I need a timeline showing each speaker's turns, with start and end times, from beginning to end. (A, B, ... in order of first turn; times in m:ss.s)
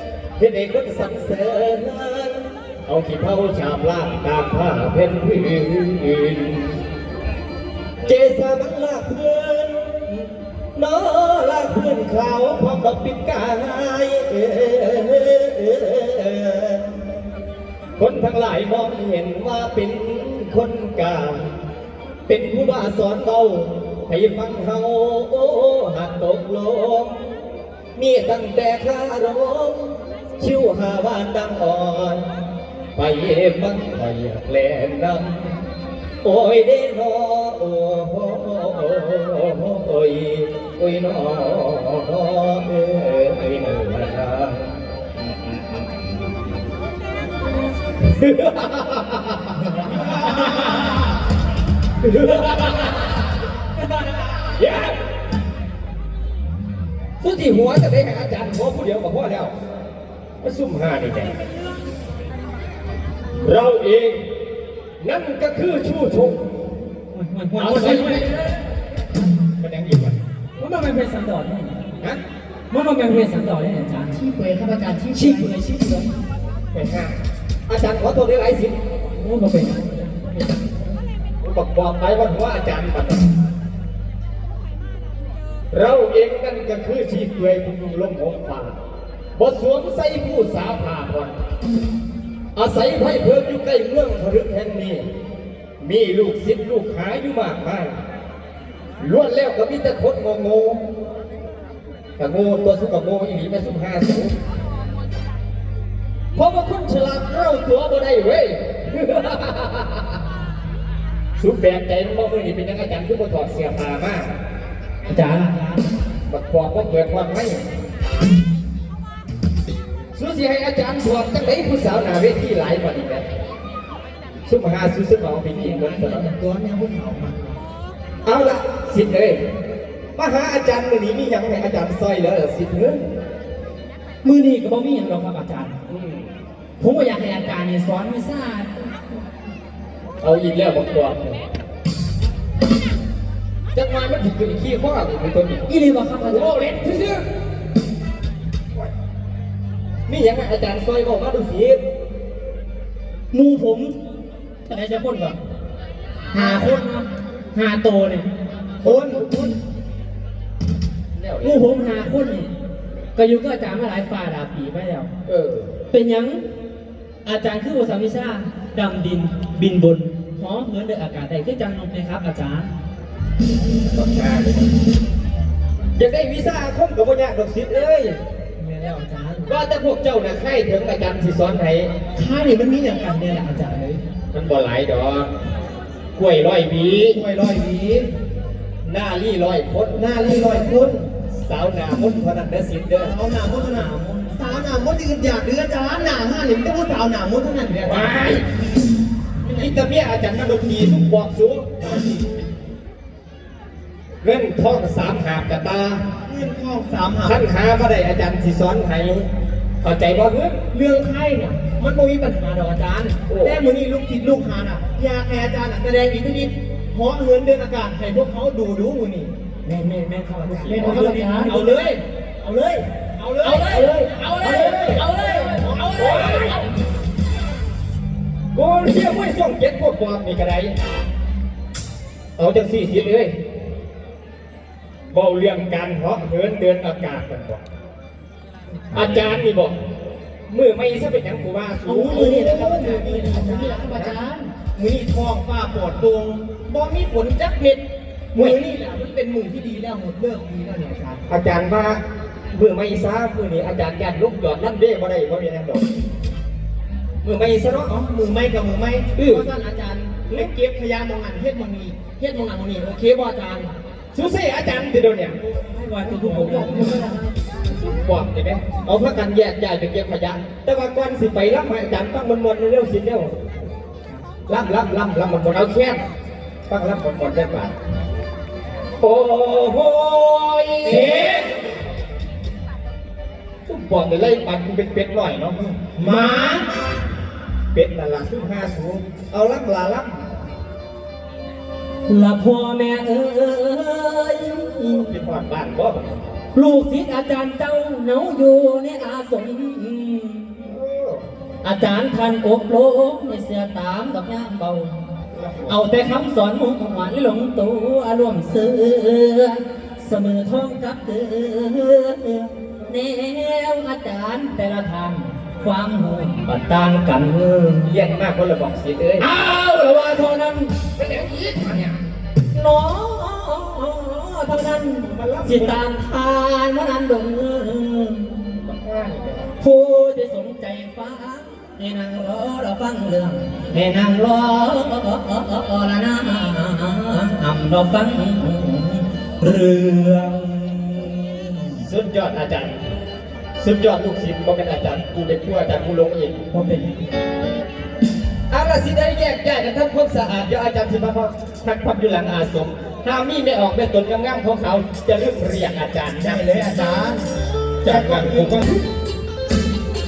0:00.4-0:06.8 A
0:08.0-0:17.0 A
0:18.0-0:21.4 A
0:22.3-0:27.2 A
0:28.0-0:32.2 A
0:32.9-0:35.6 A
0:36.2-0:44.7 A
0:48.0-0:50.9 A
0:52.0-0:53.1 A
0:54.4-0:55.0 A
0:57.2-0:59.5 A
1:00.4-1:01.4 A
1:03.4-1:04.2 A
1:05.0-1:06.4 A
1:07.1-1:08.6 B
1:07.6-1:08.4 A
1:09.6-1:10.2 A
1:10.6-1:11.8 B
1:12.7-1:14.2 B
1:14.2-1:15.5 C
1:15.1-1:16.1 B
1:16.7-1:17.1 A
1:17.7-1:18.7 A
1:19.1-1:20.7 B
1:21.4-1:23.2 A
1:25.7-1:28.8 A
1:29.4-1:31.4 A
1:32.5-1:35.0 A
1:35.8-1:38.0 A
1:39.0-1:40.8 A
1:42.2-1:44.3 A
1:46.3-1:50.1 A
1:51.4-1:54.3 A
1:55.0-1:55.5 B
1:55.2-1:55.8 C
1:56.3-1:57.6 A
2:00.1-2:03.2 A
2:04.5-2:06.3 A
2:05.5-2:07.6 C
2:08.2-2:09.4 A
2:10.2-2:13.0 A
2:14.2-2:15.8 B
2:15.9-2:16.3 A
2:16.8-2:19.0 B
2:20.2-2:21.4 A
2:23.7-2:25.7 A
2:25.7-2:26.7 B
2:26.2-2:27.2 A
2:30.1-2:31.8 A
2:33.3-2:33.9 B
2:34.6-2:35.4 B
2:36.3-2:38.3 B
2:36.3-2:36.8 C
2:38.8-2:39.5 C
2:38.8-2:39.3 A
2:41.1-2:42.0 A
2:41.4-2:42.5 B
2:43.2-2:45.1 B
2:45.2-2:45.7 A
2:45.9-2:46.4 B
2:47.2-2:52.7 B
2:53.9-2:54.6 A
2:56.0-2:58.2 A
2:58.6-2:59.5 C
2:59.4-3:01.9 A
3:02.1-3:04.0 C
3:04.3-3:05.3 A
3:06.1-3:07.2 A
3:07.1-3:08.1 C
3:08.8-3:10.0 A
3:09.9-3:11.1 C
3:11.3-3:13.1 A
3:13.0-3:18.2 C
3:13.6-3:14.4 B
3:17.7-3:18.4 A
3:19.5-3:22.0 A
3:24.2-3:26.0 A
3:26.2-3:27.4 C
3:27.2-3:29.3 A
3:29.8-3:30.6 A
3:30.7-3:39.3 C
3:33.3-3:33.6 A
3:39.6-3:41.8 B
3:40.4-3:41.2 A
3:40.5-3:42.0 C
3:42.4-3:42.8 B
3:43.1-3:46.6 C
3:43.4-3:46.6 B
3:46.0-3:46.6 A
3:48.5-3:50.7 A
3:52.4-3:53.3 A
3:55.1-3:57.6 A
3:58.9-3:59.7 A
4:00.5-4:02.8 A
4:01.8-4:04.5 B
4:01.9-4:04.1 C
4:03.8-4:04.2 A
4:04.7-4:07.8 C
4:08.3-4:11.2 C
4:08.3-4:08.6 A
4:11.3-4:15.8 A
4:17.2-4:17.9 A
4:17.9-4:23.7 C
4:19.2-4:19.4 A
4:24.1-4:25.4 A
4:25.7-4:27.3 B
4:26.1-4:27.1 C
4:26.2-4:26.8 A
4:27.7-4:33.3 A
4:34.5-4:36.0 A
4:36.7-4:37.7 A
4:39.0-4:41.5 A
4:40.9-4:41.4 C
4:43.6-4:45.8 A
4:46.0-4:46.7 C
4:46.0-4:46.6 B
4:47.7-4:50.2 A
4:52.1-4:55.1 B
4:54.9-4:56.4 A
4:56.5-5:00.7 B
5:00.6-5:01.2 A
5:01.6-5:05.0 B
5:05.3-5:05.8 A
5:05.7-5:17.9 B
5:17.8-5:19.2 A
5:19.2-5:20.7 B
5:20.9-5:22.0 A
5:22.5-5:28.3 B
5:25.0-5:25.8 A
5:28.6-5:29.6 A
5:29.6-5:41.7 B
5:41.8-5:42.8 A
5:43.6-5:46.4 A
5:46.5-5:46.9 B
5:48.5-5:56.4 A
5:56.2-5:57.2 C
5:57.8-5:58.8 A
5:57.8-5:58.7 C